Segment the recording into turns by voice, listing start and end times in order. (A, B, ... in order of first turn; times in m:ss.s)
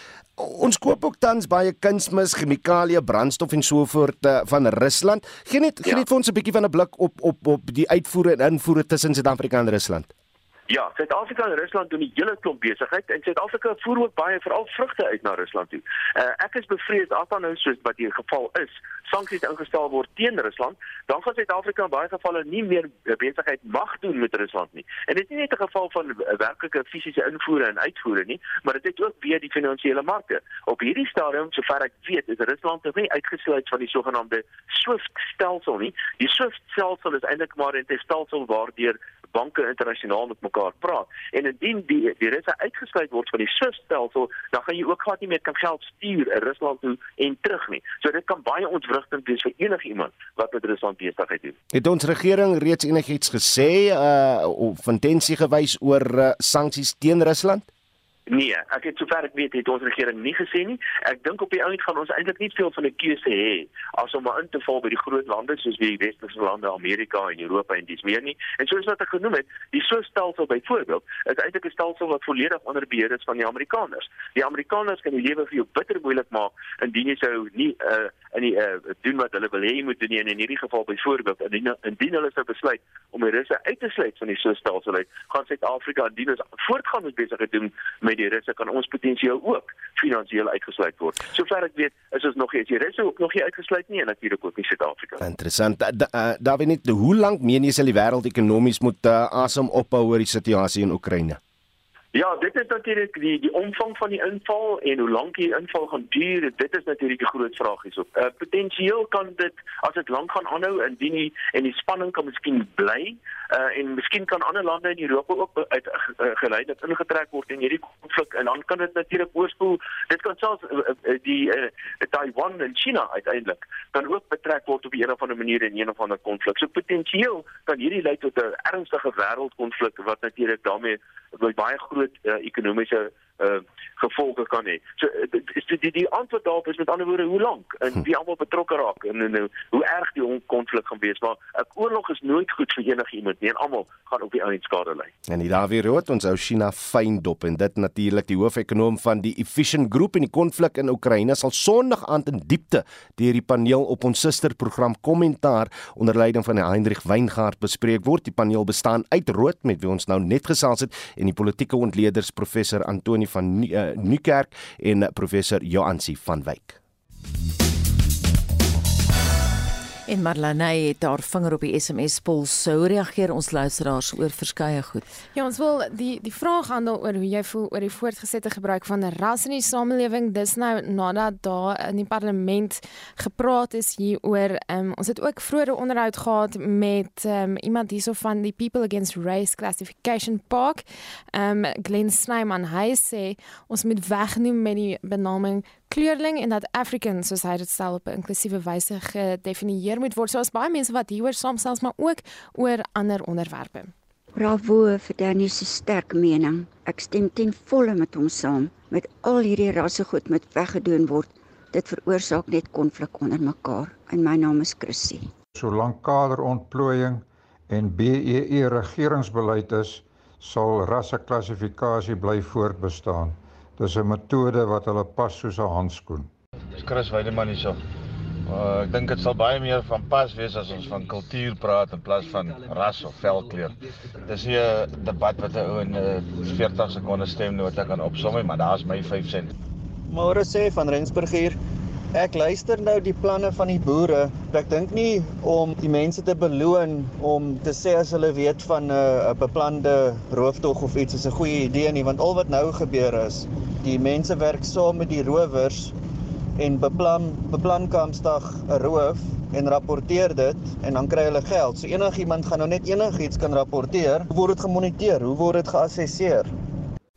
0:00.4-0:10.1 A
0:10.7-0:51.6 B
0:51.7-0:57.7 A
0:58.3-1:35.2 B
1:35.2-1:41.4 A
1:42.1-2:25.1 B
2:25.3-2:46.8 A
2:50.1-2:55.0 C
2:55.3-3:23.9 D
3:24.4-3:35.3 E
3:35.6-3:46.3 F
3:46.8-3:47.8 G
3:48.5-3:59.5 G
4:00.1-4:01.6 H
4:02.1-4:15.9 H
4:16.6-4:26.5 H